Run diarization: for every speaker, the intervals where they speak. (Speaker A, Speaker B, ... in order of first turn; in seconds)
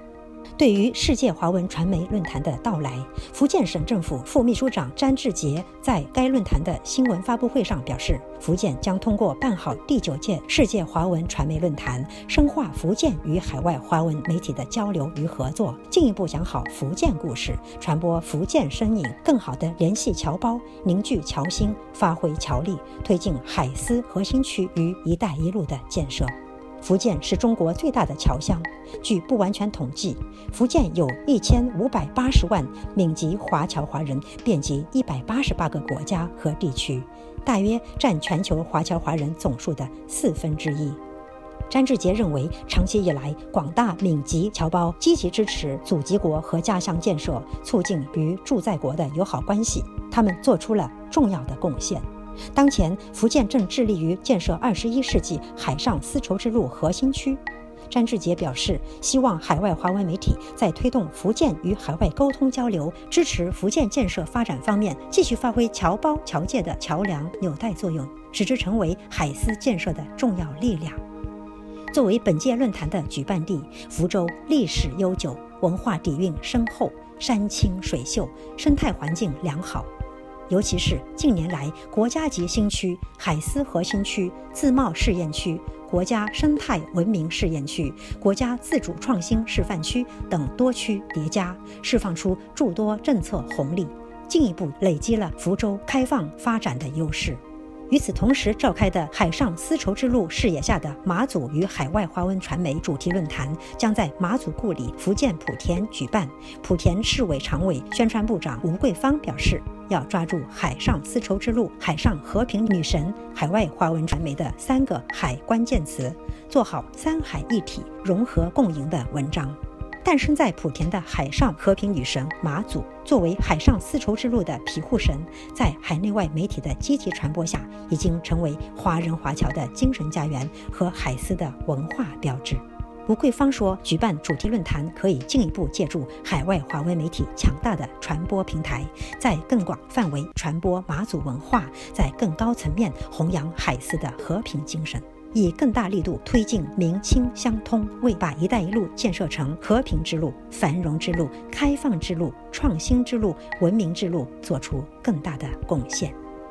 Speaker A: 0.6-41.0, 41.7-71.0, 71.9-79.9, 80.5-156.2